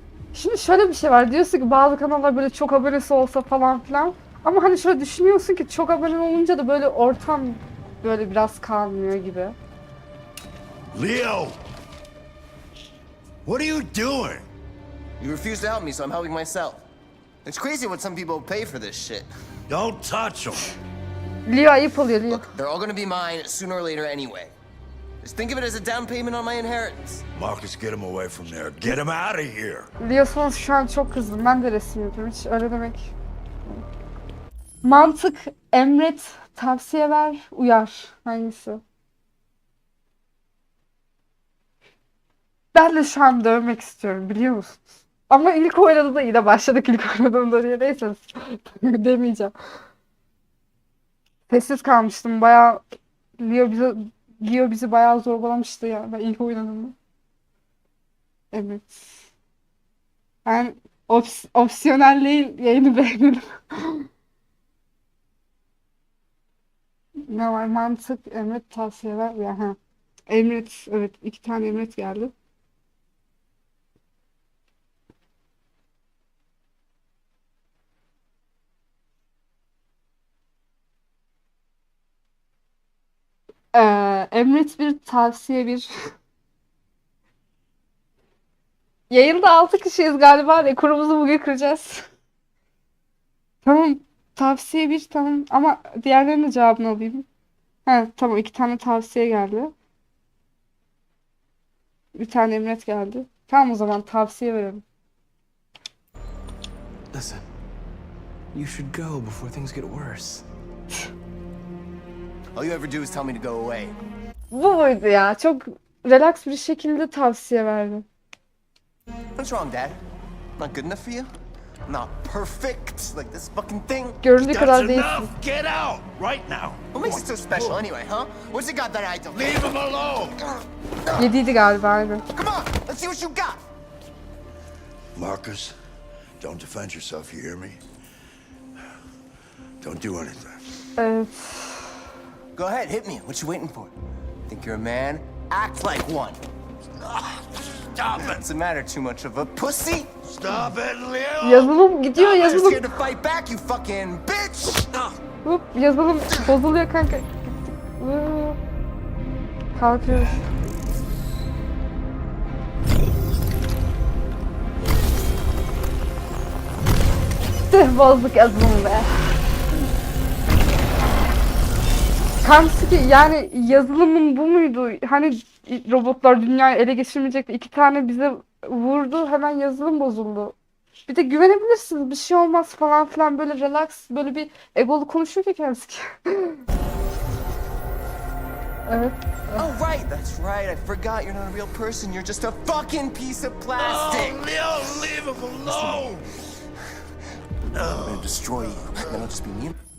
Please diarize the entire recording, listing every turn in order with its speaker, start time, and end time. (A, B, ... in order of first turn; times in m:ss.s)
0:00.3-0:09.6 A
0:10.9-0:11.6 B
0:13.4-0:14.5 B
0:15.2-0:16.8 C
0:17.4-0:19.3 C
0:19.7-0:20.7 B
0:21.4-0:22.4 A
0:22.3-0:24.5 C
0:25.2-0:27.2 C
0:27.3-0:29.9 B
0:30.0-0:33.1 A
0:34.8-0:38.8 A
0:42.7-0:49.5 A
0:51.5-0:52.8 A
0:53.4-0:56.9 A
0:58.5-0:59.2 A
1:00.4-1:04.1 A
1:07.3-1:09.8 A
1:10.3-1:12.3 A
1:23.7-1:25.9 A
1:29.1-1:32.1 A
1:33.6-1:37.2 A
1:37.8-1:39.7 A
1:42.1-1:44.8 A
1:47.1-1:47.4 D
1:48.5-1:50.4 D
1:52.5-1:54.0 C
1:54.5-1:58.0 A
1:59.4-2:00.0 C
2:00.6-2:01.3 C
2:01.8-2:04.2 C
2:04.2-2:05.3 A
2:04.4-2:07.8 B
2:06.9-2:09.7 C
2:09.3-2:10.4 B
2:11.1-2:12.2 A
2:12.3-2:13.6 C
2:15.2-2:15.8 B
2:16.4-2:17.8 B
2:19.8-2:20.6 B
2:21.0-2:22.0 A
2:22.5-2:23.9 C
2:24.5-2:26.4 C
2:27.0-2:28.5 B
2:28.2-2:30.1 C
2:30.2-2:31.7 B
2:31.4-2:32.8 A
2:32.2-2:34.9 C
2:35.4-2:38.6 A
2:39.7-2:40.4 A
2:47.7-2:49.4 A
2:52.4-3:00.5 A
3:01.1-3:06.6 A
3:08.9-3:09.7 A
3:09.6-3:15.1 C
3:13.8-3:16.3 B
3:15.6-3:16.0 C
3:17.7-3:18.4 B
3:18.0-3:19.8 C